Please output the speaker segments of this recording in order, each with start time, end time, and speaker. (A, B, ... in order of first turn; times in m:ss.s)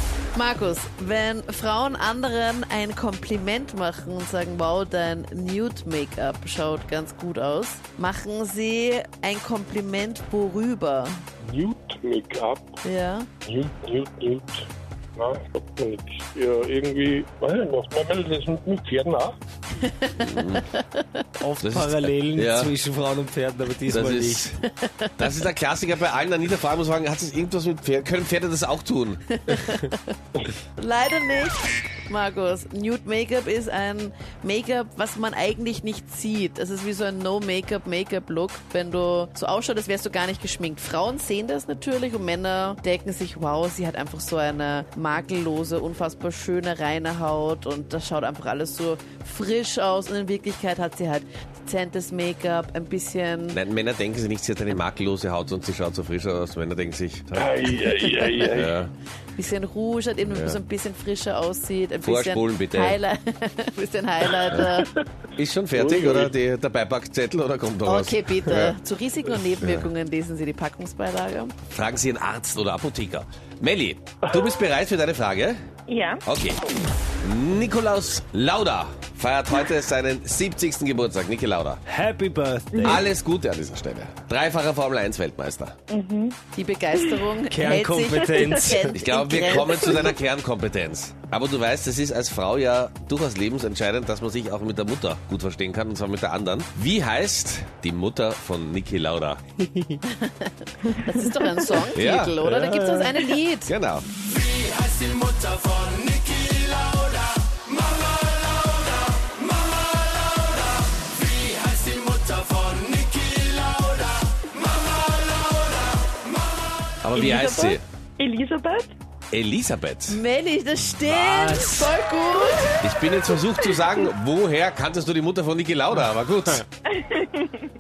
0:00.4-0:11.2 A
0:11.4-0:12.8 B
0:12.8-0:13.3 A
0:13.4-0:19.4 B
0:19.8-0:21.0 A
0:20.2-0:20.7 C
0:21.4-0:24.5 D
0:21.6-0:22.7 C
0:23.9-0:24.6 C
0:24.8-0:25.3 A
0:25.2-0:29.2 C
0:29.4-0:30.0 A
0:30.8-0:53.6 A
0:53.5-0:57.7 C
0:57.4-0:58.7 B
0:58.1-0:58.5 A
0:58.5-0:58.9 C
0:59.4-1:04.9 A
1:00.3-1:00.6 C
1:02.0-1:03.0 C
1:05.4-1:08.7 C
1:05.7-1:06.3 B
1:07.8-1:11.6 A
1:09.6-1:09.9 C
1:11.7-1:15.6 C
1:15.9-1:16.2 E
1:16.2-1:16.6 C
1:17.2-1:21.8 C
1:21.9-1:23.0 D
1:22.7-1:23.0 E
1:22.8-1:25.8 C
1:25.9-1:26.4 E
1:26.6-1:30.2 A
1:27.5-1:29.0 D
1:28.9-1:39.4 C
1:29.6-1:30.0 E
1:40.0-1:43.7 A
1:41.1-1:41.8 E
1:41.9-1:42.4 C
1:42.6-1:43.0 D
1:43.7-1:44.1 C
1:57.0-1:57.8 C
1:57.1-1:58.9 E
1:59.3-2:00.2 C
2:00.1-2:02.8 A
2:01.0-2:01.9 D
2:02.8-2:06.6 C
2:06.9-2:07.7 E